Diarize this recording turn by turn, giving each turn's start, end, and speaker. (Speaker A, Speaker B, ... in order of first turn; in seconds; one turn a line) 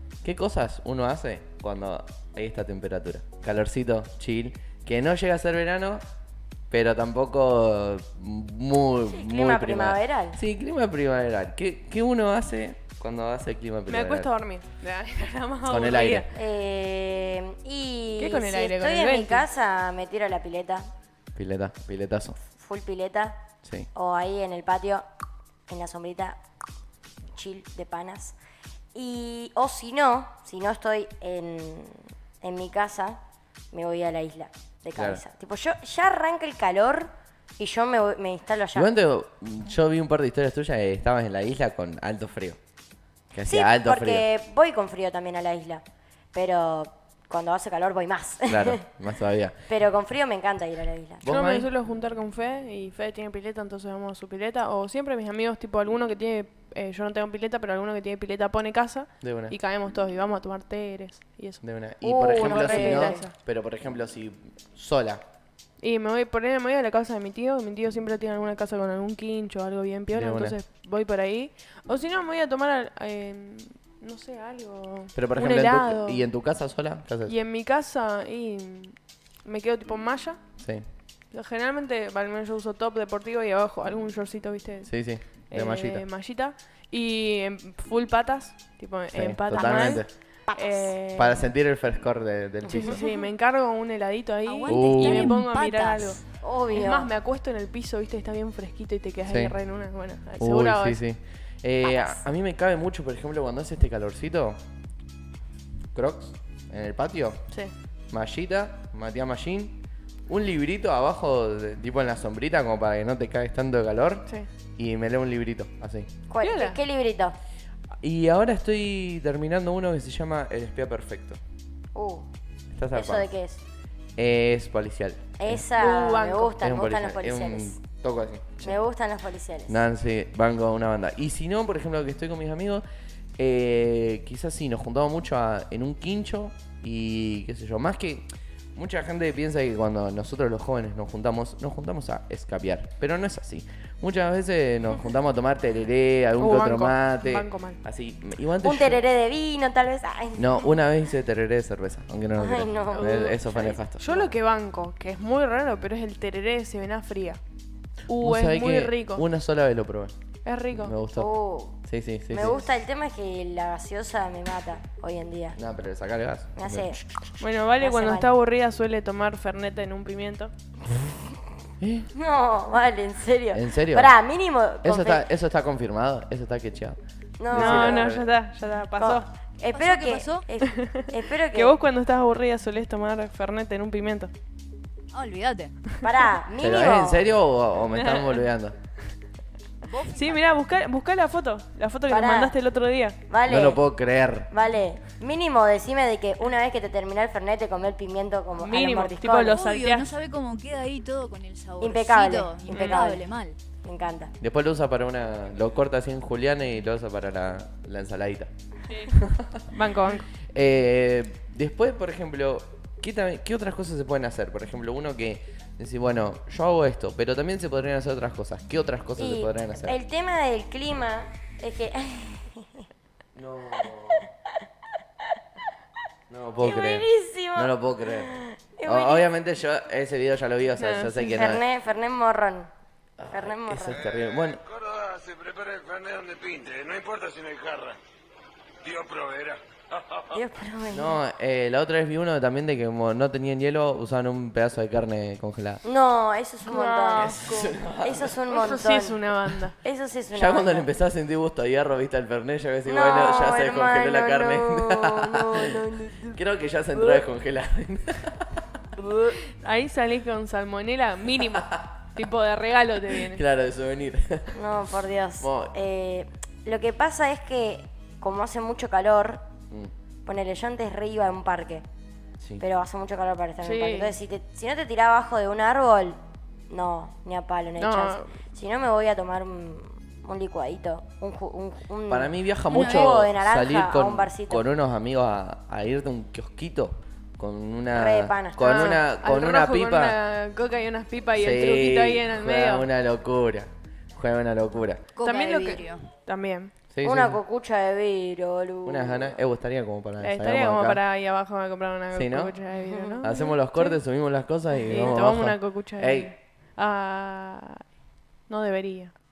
Speaker A: 0.2-6.0
Speaker A: 6.7-14.3
Speaker B: 9.1-10.4
Speaker C: 13.9-16.3
Speaker A: 15.7-16.3
Speaker B: 16.3-20.9
Speaker C: 18.2-19.5
Speaker A: 21.4-22.4
Speaker B: 22.5-23.4
Speaker A: 23.6-23.9
Speaker B: 23.9-25.1
Speaker B: 25.7-26.4
Speaker B: 27.4-28.4
Speaker B: 28.9-33.2
Speaker B: 33.7-38.9
Speaker A: 35.0-35.2
Speaker A: 38.7-42.6
Speaker A: 43.3-44.3
Speaker B: 43.5-48.9
Speaker A: 48.5-49.6
Speaker B: 49.7-51.3
Speaker A: 51.2-51.7
Speaker C: 51.3-61.6
Speaker A: 59.2-59.6
Speaker A: 61.6-65.2
Speaker B: 62.0-63.3
Speaker C: 62.3-63.3
Speaker C: 65.8-76.3
Speaker A: 70.1-70.6
Speaker A: 75.1-77.3
Speaker C: 77.3-80.4
Speaker A: 80.6-80.8
Speaker C: 81.3-91.4
Speaker A: 84.8-86.1
Speaker A: 89.1-90.1
Speaker B: 89.5-91.0
Speaker A: 91.1-93.0
Speaker B: 92.7-93.0
Speaker C: 92.7-101.0
Speaker D: 94.5-96.2
Speaker A: 94.7-95.4
Speaker B: 96.4-97.1
Speaker A: 99.2-99.6
Speaker A: 100.4-104.6
Speaker B: 101.8-102.2
Speaker A: 105.9-107.4
Speaker A: 108.1-116.1
Speaker B: 116.3-117.4
Speaker C: 116.4-116.8
Speaker A: 118.0-121.4
Speaker B: 122.0-122.3
Speaker A: 122.8-123.3
Speaker B: 122.9-123.6
Speaker A: 124.2-125.7
Speaker B: 125.4-127.8
Speaker C: 125.8-126.6
Speaker A: 126.6-128.9
Speaker B: 128.6-129.8
Speaker A: 129.7-132.8
Speaker A: 133.4-149.0
Speaker C: 146.4-147.8
Speaker B: 148.6-150.7
Speaker A: 150.4-154.3
Speaker B: 152.4-153.8
Speaker C: 153.0-153.4
Speaker C: 154.0-157.4
Speaker C: 158.1-159.2
Speaker A: 158.2-160.1
Speaker C: 160.4-160.9
Speaker A: 160.7-161.3
Speaker B: 161.1-165.6
Speaker A: 161.9-162.6
Speaker A: 165.6-167.0
Speaker B: 166.6-167.0
Speaker C: 167.4-170.5
Speaker B: 167.8-168.3
Speaker A: 171.8-172.1
Speaker B: 172.1-175.2
Speaker A: 173.5-174.1
Speaker A: 174.8-177.0
Speaker B: 177.4-178.1
Speaker A: 177.5-178.3
Speaker C: 177.5-179.3
Speaker B: 179.0-181.8
Speaker D: 179.7-180.4
Speaker C: 180.7-184.3
Speaker D: 185.1-185.7
Speaker B: 186.0-187.3
Speaker A: 186.6-188.8
Speaker C: 187.9-188.5
Speaker D: 189.8-190.4
Speaker C: 190.1-193.2
Speaker B: 192.1-192.6
Speaker B: 193.3-193.8
Speaker A: 193.5-194.5
Speaker B: 194.5-199.6
Speaker C: 198.6-200.1
Speaker D: 199.5-203.6
Speaker B: 201.8-203.2
Speaker C: 202.7-203.1
Speaker B: 203.8-204.3
Speaker A: 204.4-208.5
Speaker C: 208.9-209.2
Speaker A: 209.1-209.6
Speaker C: 209.7-210.3
Speaker A: 210.5-220.0
Speaker B: 219.2-222.9
Speaker A: 223.4-224.3
Speaker A: 226.3-228.3
Speaker B: 226.6-229.3
Speaker A: 228.9-231.6
Speaker C: 230.8-231.4
Speaker B: 231.4-232.7
Speaker A: 233.2-234.6
Speaker B: 233.3-234.0
Speaker E: 235.1-237.9
Speaker E: 238.9-239.5
Speaker B: 240.3-241.2
Speaker A: 240.9-245.8
Speaker B: 245.8-247.4
Speaker C: 246.7-247.8
Speaker A: 247.2-248.4
Speaker B: 248.0-249.2
Speaker C: 248.5-249.8
Speaker B: 249.8-250.9
Speaker A: 250.3-255.7
Speaker B: 252.8-256.4
Speaker A: 256.3-258.8
Speaker C: 259.0-263.4
Speaker A: 263.1-264.6
Speaker B: 264.5-269.5
Speaker A: 265.4-265.7
Speaker B: 270.2-271.9
Speaker B: 272.6-276.2
Speaker C: 273.6-274.2
Speaker B: 276.7-284.6
Speaker C: 277.8-278.4
Speaker A: 282.1-290.2
Speaker D: 282.7-283.2
Speaker B: 287.9-288.8
Speaker C: 288.6-292.9
Speaker A: 291.3-295.0
Speaker D: 295.1-296.1
Speaker C: 295.2-296.7
Speaker A: 296.9-297.4
Speaker B: 297.0-299.4
Speaker A: 298.9-301.0
Speaker C: 300.2-304.0
Speaker A: 302.1-302.6
Speaker B: 302.9-303.2
Speaker A: 303.2-306.3
Speaker C: 304.8-307.8
Speaker C: 308.5-309.1